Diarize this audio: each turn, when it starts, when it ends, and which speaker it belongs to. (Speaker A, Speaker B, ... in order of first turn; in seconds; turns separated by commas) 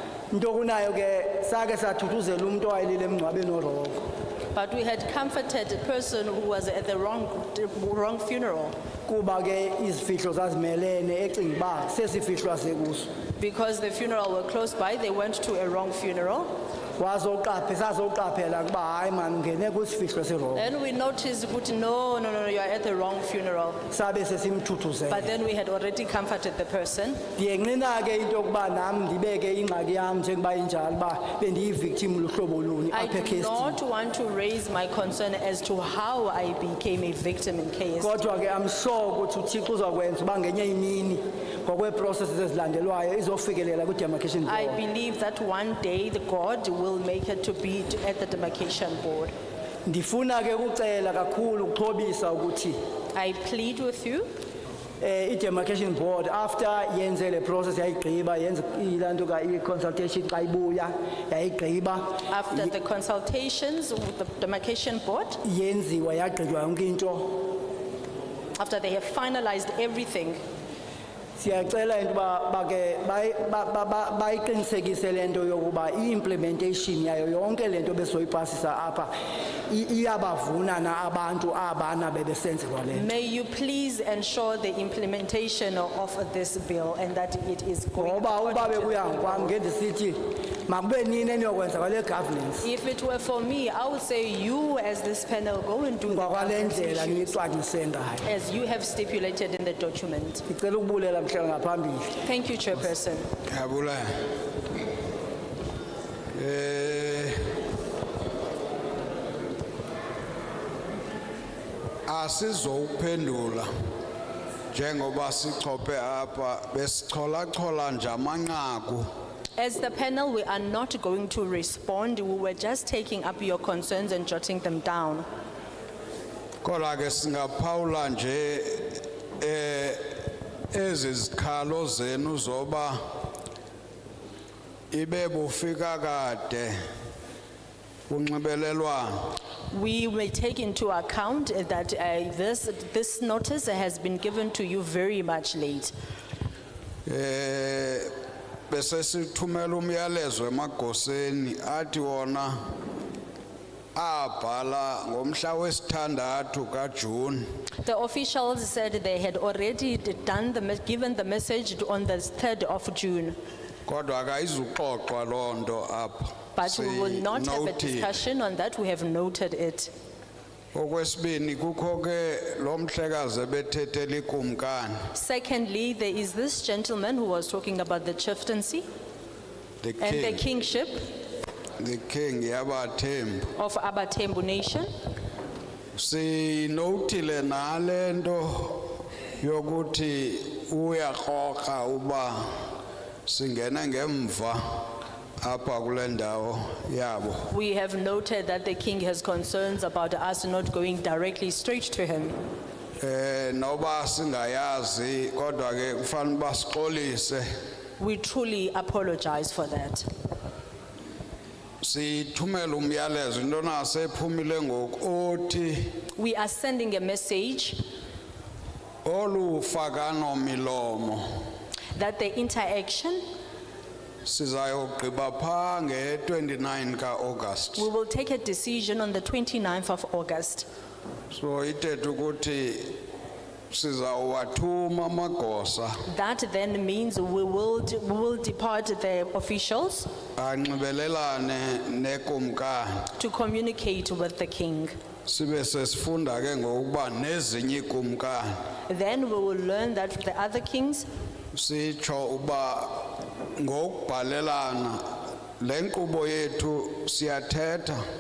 Speaker A: 0.3-4.0, Speaker B: 4.5-8.7, Speaker A: 9.1-13.1, Speaker B: 13.4-16.5, Speaker A: 17.0-20.7, Speaker B: 20.6-23.8, Speaker A: 23.9-25.3, Speaker B: 25.1-27.2, Speaker A: 27.4-33.8, Speaker B: 32.9-38.2, Speaker A: 38.0-44.8, Speaker B: 44.5-49.3, Speaker A: 49.9-52.8, Speaker B: 53.1-54.3, Speaker A: 55.0-62.1, Speaker B: 62.3-65.4, Speaker A: 65.4-67.4, Speaker B: 68.6-70.4, Speaker A: 71.4-79.1, Speaker A: 79.7-83.0, Speaker B: 82.9-89.5, Speaker A: 88.0-92.7, Speaker B: 92.6-97.3, Speaker A: 96.1-98.3, Speaker B: 98.2-100.4, Speaker A: 100.5-102.1, Speaker B: 102.2-103.3, Speaker C: 103.5-104.1, Speaker C: 106.3-107.4, Speaker C: 112.1-113.7, Speaker C: 114.7-119.1, Speaker B: 119.6-125.2, Speaker C: 126.6-133.0, Speaker C: 134.9-136.8, Speaker C: 138.1-139.3, Speaker B: 139.7-145.9, Speaker C: 147.1-148.1, Speaker C: 148.7-152.6, Speaker C: 153.9-157.5, Speaker B: 157.8-163.4, Speaker C: 163.9-168.1, Speaker B: 166.6-169.9, Speaker C: 170.7-175.1, Speaker B: 175.1-178.8, Speaker C: 179.8-180.4, Speaker B: 180.0-181.1, Speaker C: 181.8-183.5, Speaker B: 183.6-184.9, Speaker C: 186.0-192.5, Speaker C: 193.3-197.5, Speaker B: 197.5-202.4, Speaker C: 203.0-207.4, Speaker B: 208.0-210.1, Speaker C: 211.8-215.9, Speaker B: 216.2-217.8, Speaker C: 219.0-221.2, Speaker B: 222.0-223.2, Speaker C: 224.2-227.9, Speaker B: 227.8-230.7, Speaker C: 231.3-233.0, Speaker C: 233.7-235.9, Speaker B: 236.1-240.1, Speaker C: 240.4-243.0, Speaker B: 243.2-244.9, Speaker C: 245.3-248.5, Speaker B: 248.9-251.1, Speaker C: 251.5-255.0, Speaker C: 255.6-258.0